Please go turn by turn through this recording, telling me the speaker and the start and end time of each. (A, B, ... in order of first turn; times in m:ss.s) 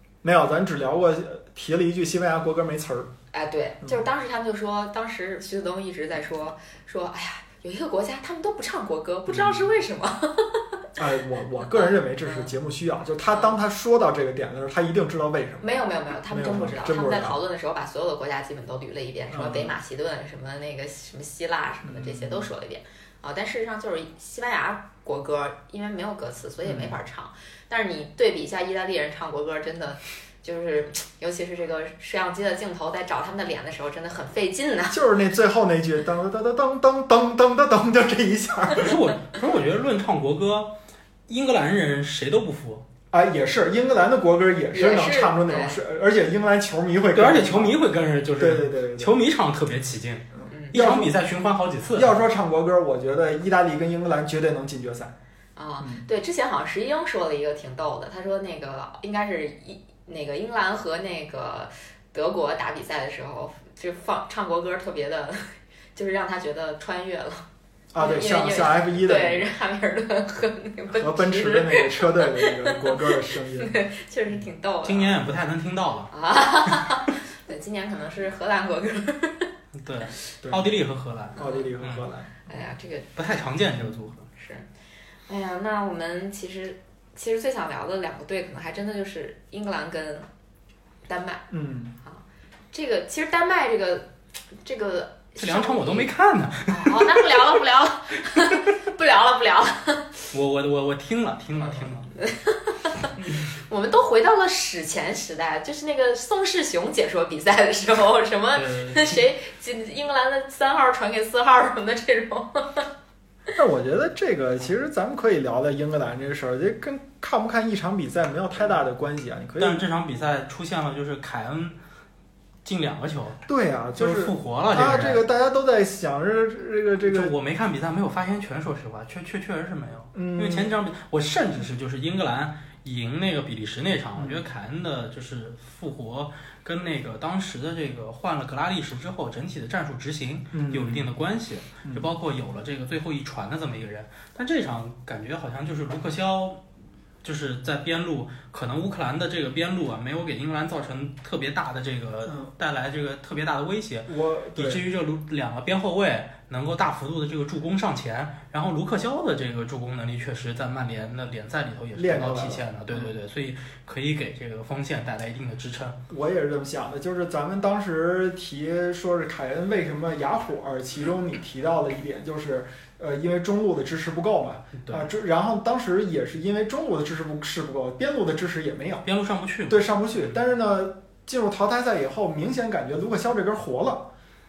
0:00.2-0:03.1 A
0:03.3-0:10.6 B
0:09.3-0:09.6 A
0:11.0-0:15.7 A
0:11.7-0:12.5 B
0:15.6-0:35.0 B
0:16.3-0:17.4 A
0:19.3-0:19.8 A
0:21.8-0:22.5 A
0:26.6-0:27.0 A
0:34.9-0:39.0 A
0:38.8-0:40.8 C
0:41.3-0:42.8 C
0:43.1-0:47.8 A
0:44.7-0:45.8 B
0:47.2-0:52.2 C
0:48.4-0:49.2 A
0:50.4-0:51.2 A
0:50.5-0:50.8 B
0:52.0-0:55.1 A
0:55.6-1:07.4 B
1:07.9-1:09.5 A
1:08.0-1:15.2 B
1:10.9-1:13.7 A
1:14.8-1:16.1 C
1:16.1-1:19.5 B
1:19.8-1:22.1 C
1:20.4-1:20.7 A
1:21.4-1:21.7 B
1:21.4-1:22.4 A
1:22.5-1:23.4 B
1:23.2-1:24.3 C
1:24.4-1:24.7 B
1:25.3-1:30.3 B
1:31.1-1:31.5 B
1:31.5-1:32.0 A
1:32.0-1:34.1 B
1:34.6-1:36.1 B
1:35.4-1:37.4 C
1:36.7-1:40.2 B
1:40.3-1:42.1 C
1:41.6-1:52.9 B
1:48.6-1:49.2 C
1:53.6-1:59.8 A
1:59.6-2:01.8 C
2:02.6-2:03.4 C
2:03.5-2:07.3 A
2:04.0-2:05.2 C
2:07.0-2:26.6 C
2:10.1-2:10.7 A
2:14.2-2:14.4 A
2:20.5-2:21.1 A
2:27.2-2:46.0 C
2:32.3-2:32.5 A
2:34.1-2:34.8 A
2:42.0-2:43.1 A
2:46.1-2:59.0 A
2:54.8-2:55.1 C
2:59.0-3:00.4 C
2:59.7-3:04.1 A